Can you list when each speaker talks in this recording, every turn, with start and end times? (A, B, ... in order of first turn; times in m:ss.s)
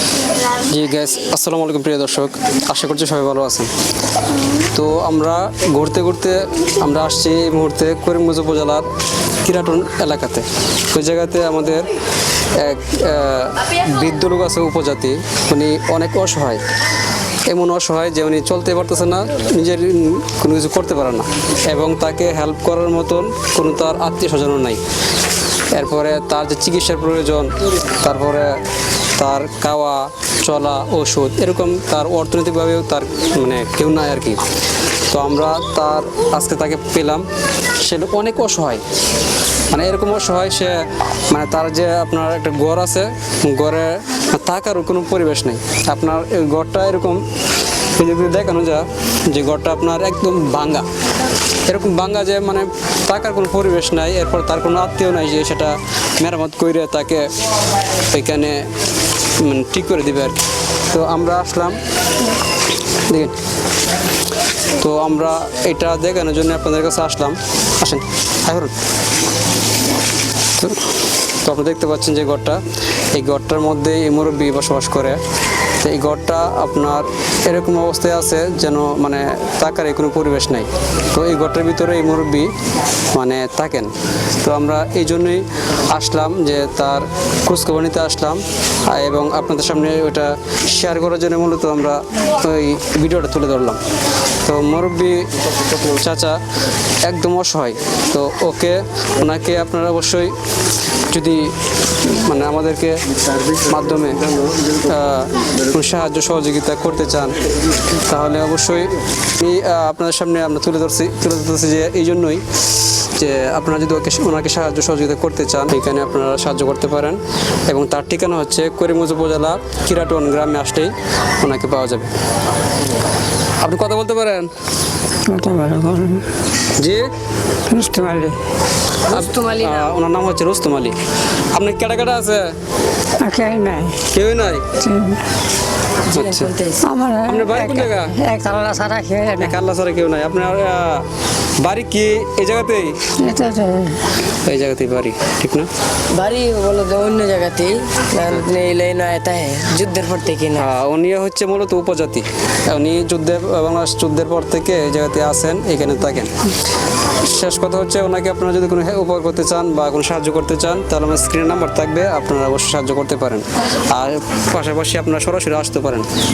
0:00.6-0:03.7 A
0:04.7-0:08.8 A
0:09.4-0:11.9 A
0:12.6-0:16.6 A
0:17.4-0:24.8 A
0:25.7-0:28.5 A
0:29.2-0:34.4 A
0:35.1-0:37.2 A
0:37.8-0:38.8 A
0:39.7-0:47.2 A
0:48.0-0:50.8 A
0:51.6-0:57.3 A
0:58.1-0:58.6 A
0:59.4-1:00.4 A
1:00.9-1:01.8 A
1:03.0-1:03.3 A
1:04.8-1:08.7 A
1:11.4-1:12.6 A
1:13.1-1:15.2 A
1:15.8-1:22.5 A
1:23.1-1:33.8 A
1:34.4-1:36.4 A
1:37.0-1:40.3 A
1:41.1-1:41.5 A
1:42.0-1:43.0 A
1:43.6-1:47.4 A
1:48.0-2:02.1 A
2:03.6-2:04.5 A
2:05.3-2:06.2 B
2:06.8-2:07.0 A
2:07.7-2:08.4 B
2:09.1-2:09.8 C
2:09.1-2:10.9 A
2:11.5-2:12.4 A
2:13.2-2:14.0 B
2:14.1-2:14.6 A
2:14.7-2:15.2 B
2:16.1-2:16.8 C
2:16.1-2:16.5 A
2:16.8-2:19.5 B
2:17.2-2:18.2 A
2:19.4-2:21.0 A
2:21.6-2:23.0 A
2:23.2-2:24.0 B
2:24.4-2:25.7 A
2:26.1-2:30.7 C
2:30.5-2:36.3 A
2:37.2-2:46.1 A